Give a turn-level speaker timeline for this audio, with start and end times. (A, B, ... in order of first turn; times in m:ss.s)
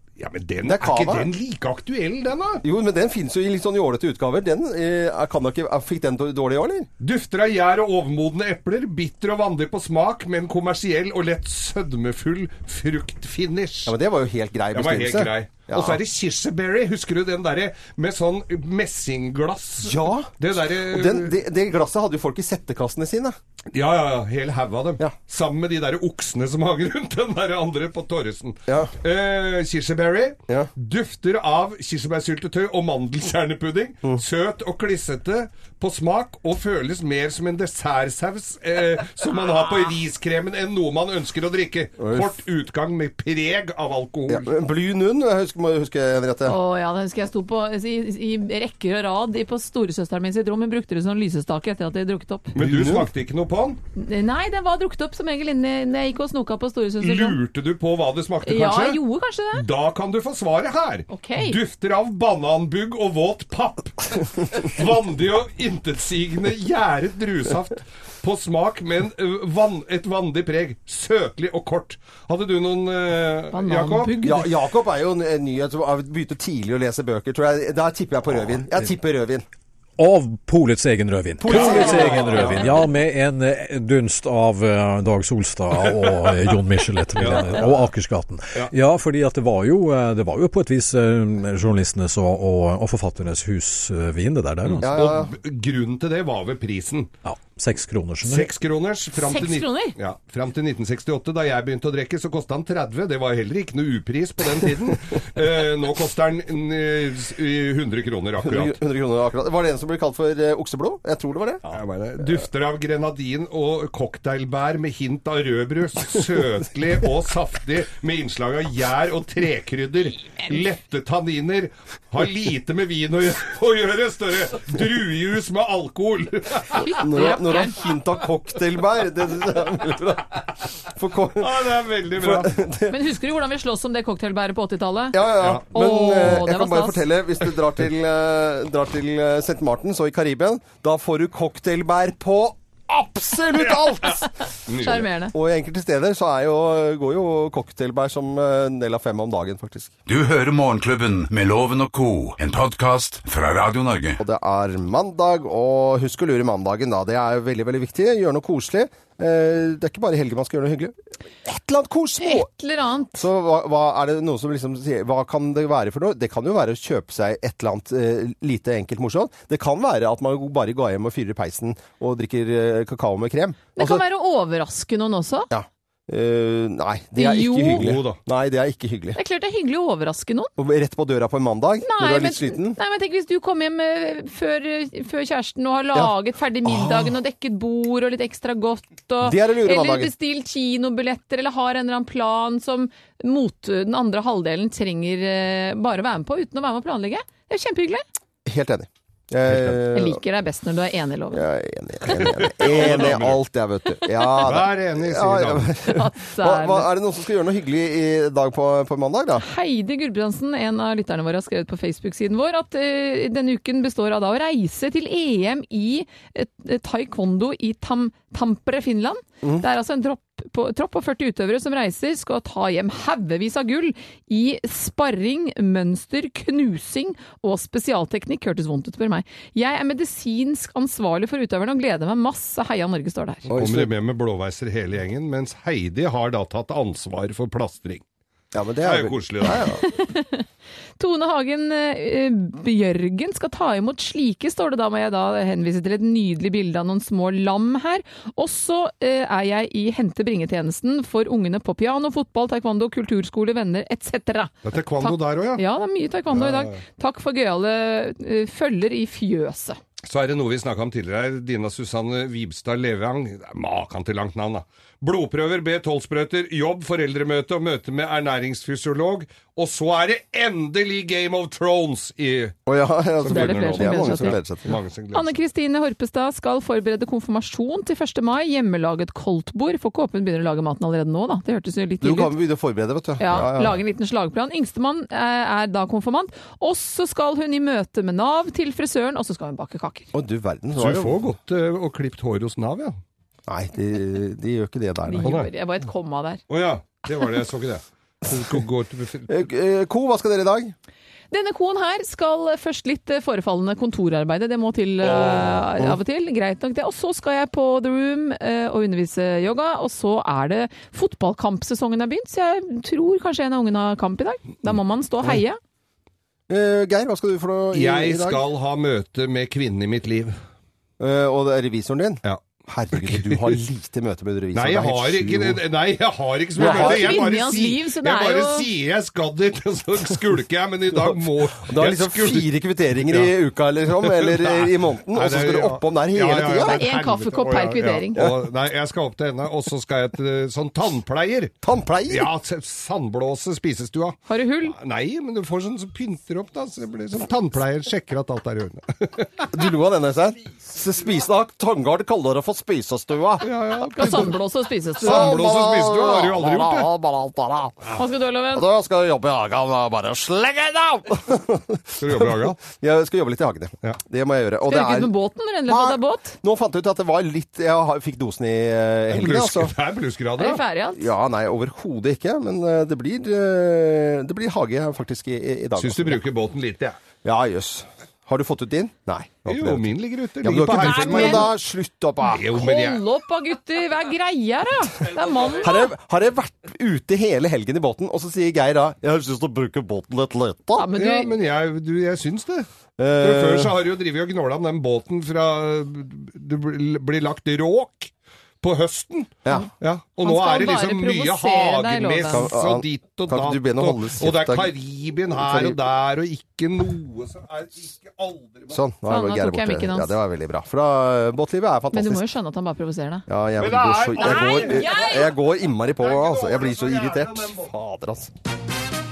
0:00.2-0:02.6 A
0:00.6-0:01.3 B
0:02.6-0:06.9 B
0:07.0-0:14.0 A
0:13.9-0:16.0 B
0:14.7-0:21.3 A
0:19.8-0:23.4 B
0:23.7-0:44.5 A
0:28.7-0:28.9 B
0:42.0-0:42.4 B
0:44.3-0:46.6 B
0:46.5-0:52.5 C
0:52.6-0:53.1 B
0:52.6-0:53.8 A
0:54.0-0:57.4 C
0:57.0-0:59.0 A
0:58.4-0:59.6 C
0:59.5-1:14.3 A
1:01.1-1:01.6 C
1:13.5-1:14.5 C
1:14.2-1:19.4 B
1:20.0-1:34.9 D
1:21.4-1:22.6 B
1:21.5-1:22.6 A
1:27.2-1:27.7 A
1:34.7-1:37.1 A
1:34.8-1:35.3 B
1:37.2-1:38.5 D
1:38.2-1:48.8 A
1:39.2-1:40.0 C
1:48.4-1:51.6 B
1:51.7-2:07.4 A
2:06.8-2:07.8 C
2:06.9-2:13.0 B
2:11.4-2:12.5 A
2:12.9-2:15.2 C
2:15.1-2:24.3 B
2:15.4-2:15.7 A
2:15.7-2:17.0 C
2:23.6-2:23.9 A
2:24.7-2:25.0 A
2:24.7-2:25.3 C
2:24.9-2:30.0 B
2:30.1-2:34.2 E
2:34.2-2:42.5 B
2:42.2-2:43.3 C
2:43.1-2:54.0 B
2:53.8-2:55.5 C
2:55.5-2:59.2 B
2:57.2-2:57.9 C
2:57.8-2:58.2 A
2:59.2-3:00.5 C
3:00.6-3:02.8 B
3:01.8-3:18.0 C
3:06.6-3:07.1 B
3:09.2-3:10.1 B
3:18.5-3:20.2 B
3:19.5-3:19.8 A
3:19.9-3:21.5 C
3:21.3-3:29.5 B
3:22.1-3:23.4 A
3:24.4-3:25.7 A
3:25.8-3:26.9 C
3:29.4-3:53.5 C
3:53.5-3:53.9 B
3:53.5-3:58.0 A
3:58.5-3:59.8 B
3:58.8-3:59.7 A
3:59.8-4:00.4 C
4:01.0-4:19.8 C
4:14.6-4:15.6 A
4:16.3-4:16.8 A
4:20.0-4:32.6 A
4:32.7-4:34.8 B
4:33.2-4:35.3 A
4:33.3-4:34.4 C
4:35.1-4:42.4 C
4:42.0-4:43.8 B
4:43.2-4:50.1 C
4:50.1-4:51.2 B
4:50.8-4:53.0 A
4:53.5-4:55.5 B
4:55.1-4:56.4 C
4:55.2-4:55.5 A
4:56.5-4:59.4 A
4:59.3-5:00.8 B
5:01.3-5:15.6 C
5:05.0-5:05.7 A
5:16.5-5:18.4 B
5:17.7-5:20.4 A
5:21.0-5:25.6 B
5:22.9-5:23.6 A
5:24.5-5:33.3 A
5:26.6-5:27.3 B
5:26.6-5:28.7 C
5:30.9-5:36.8 B
5:33.9-5:41.6 A
5:36.6-5:38.3 C
5:41.6-5:42.3 B
5:42.1-5:44.2 A
5:44.3-5:44.8 C
5:44.7-5:49.5 A
5:49.5-5:54.3 B
5:53.4-5:54.3 A
5:53.9-5:55.4 C
5:55.0-5:57.9 B
5:55.0-5:56.9 A
5:58.0-5:58.7 C
5:58.5-6:05.1 B
6:02.0-6:02.6 A
6:04.7-6:06.4 C
6:05.7-6:09.7 B
6:09.1-6:10.6 A
6:10.4-6:11.1 C
6:10.9-6:16.2 B
6:15.8-6:17.0 A
6:17.2-6:22.5 B
6:19.5-6:21.5 A
6:20.7-6:21.5 C
6:22.3-6:23.0 A
6:22.5-6:25.9 C
6:25.2-6:25.6 A
6:25.6-6:30.9 B
6:30.8-6:31.3 C
6:31.0-6:32.7 A
6:33.0-6:33.8 B
6:33.2-6:48.8 A
6:40.2-6:42.5 C
6:42.3-6:44.7 B
6:45.3-6:45.8 B
6:48.7-6:52.2 B
6:49.1-6:50.1 C
6:51.9-6:53.3 C
6:53.3-6:58.3 B
6:53.6-6:57.7 A
6:54.2-6:55.3 C